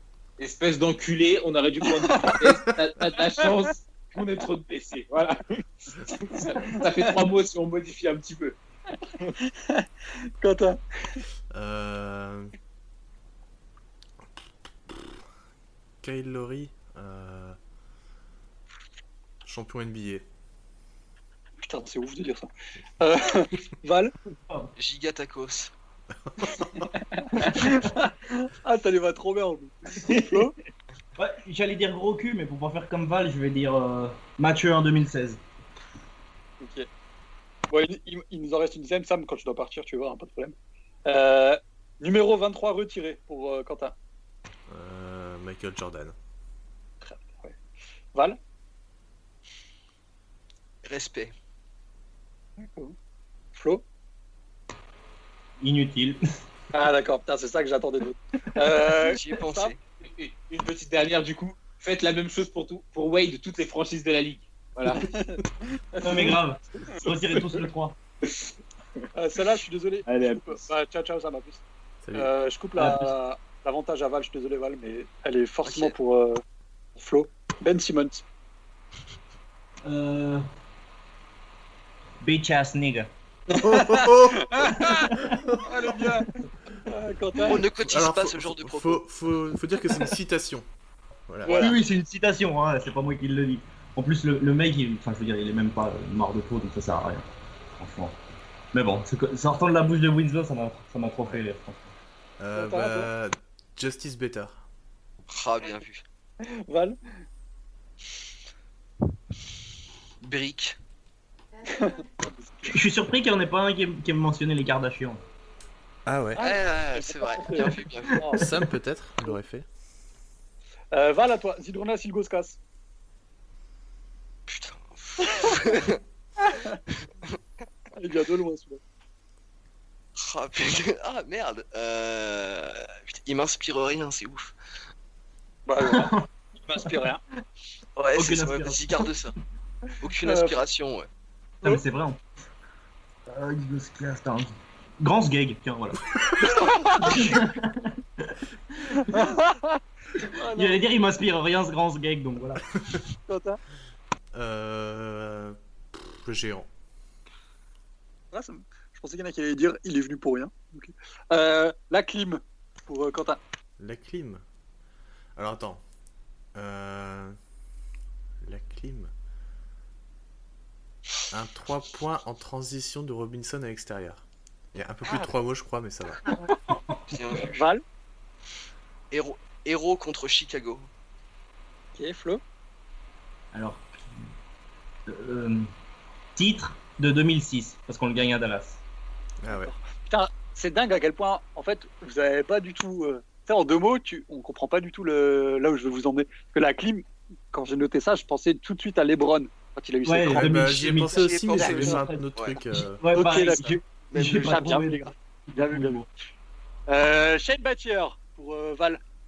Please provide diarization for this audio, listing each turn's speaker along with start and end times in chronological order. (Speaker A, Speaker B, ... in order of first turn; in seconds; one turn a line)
Speaker A: 0.4-8.6
Speaker B: 1.9-2.3
Speaker B: 6.8-7.1
Speaker B: 9.4-11.2
Speaker C: 11.5-12.5
Speaker C: 16.0-17.6
Speaker C: 19.4-20.3
Speaker B: 21.6-22.5
Speaker B: 23.0-24.1
Speaker D: 24.8-25.7
Speaker C: 26.2-26.6
Speaker B: 26.4-30.6
Speaker E: 30.0-30.5
Speaker E: 31.2-35.4
Speaker B: 36.6-36.9
Speaker B: 37.7-44.0
Speaker C: 44.7-46.1
Speaker B: 47.0-47.6
Speaker D: 50.8-51.3
Speaker B: 52.6-53.0
Speaker B: 53.5-53.8
Speaker E: 55.6-56.2
Speaker B: 56.7-59.7
Speaker D: 58.9-59.8
Speaker A: 60.0-65.1
Speaker B: 64.9-66.4
Speaker E: 66.0-68.0
Speaker B: 69.2-71.6
Speaker A: 70.1-70.7
Speaker C: 72.0-72.3
Speaker B: 72.1-76.4
Speaker E: 72.8-73.2
Speaker D: 75.7-76.0
Speaker B: 77.0-78.2
Speaker E: 79.8-80.5
Speaker E: 82.2-83.1
Speaker B: 83.5-85.1
Speaker C: 83.7-85.6
Speaker E: 83.9-85.6
Speaker B: 85.6-87.7
Speaker D: 87.5-89.0
Speaker C: 87.7-90.7
Speaker C: 91.3-91.7
Speaker B: 91.4-91.8
Speaker E: 91.5-97.3
Speaker E: 97.8-98.2
Speaker E: 98.7-101.9
Speaker C: 102.4-104.6
Speaker B: 102.5-103.1
Speaker D: 105.3-106.0
Speaker B: 106.4-107.0
Speaker D: 110.2-110.8
Speaker B: 111.7-112.8
Speaker E: 112.7-115.2
Speaker C: 116.1-116.5
Speaker B: 116.4-118.5
Speaker D: 116.4-118.2
Speaker E: 118.1-118.5
Speaker C: 118.4-119.7
Speaker B: 120.9-122.6
Speaker D: 124.5-126.0
Speaker B: 126.4-126.8
Speaker B: 128.0-128.8
Speaker D: 130.2-134.6
Speaker B: 135.7-137.2
Speaker E: 135.9-136.3
Speaker D: 138.0-139.3
Speaker E: 138.1-139.1
Speaker D: 140.0-141.1
Speaker B: 140.2-140.6
Speaker E: 141.6-142.2
Speaker E: 143.3-149.3
Speaker B: 146.5-147.4
Speaker B: 149.0-150.8
Speaker E: 150.4-152.6
Speaker B: 153.3-153.6
Speaker C: 154.3-156.7
Speaker B: 158.3-163.4
Speaker C: 163.8-164.4
Speaker C: 165.4-165.8
Speaker C: 166.5-167.4
Speaker C: 168.4-169.1
Speaker C: 171.3-174.2
Speaker C: 174.7-176.3
Speaker D: 177.1-177.7
Speaker B: 177.4-177.8
Speaker D: 179.1-180.9
Speaker B: 182.0-182.4
Speaker E: 183.5-184.3
Speaker E: 185.1-185.7
Speaker E: 186.4-188.8
Speaker C: 189.4-189.7
Speaker B: 189.5-200.7
Speaker E: 200.1-206.1
Speaker C: 200.3-203.0
Speaker D: 201.0-202.6
Speaker B: 201.6-202.0
Speaker B: 203.1-206.0
Speaker D: 204.1-204.8
Speaker B: 206.9-209.0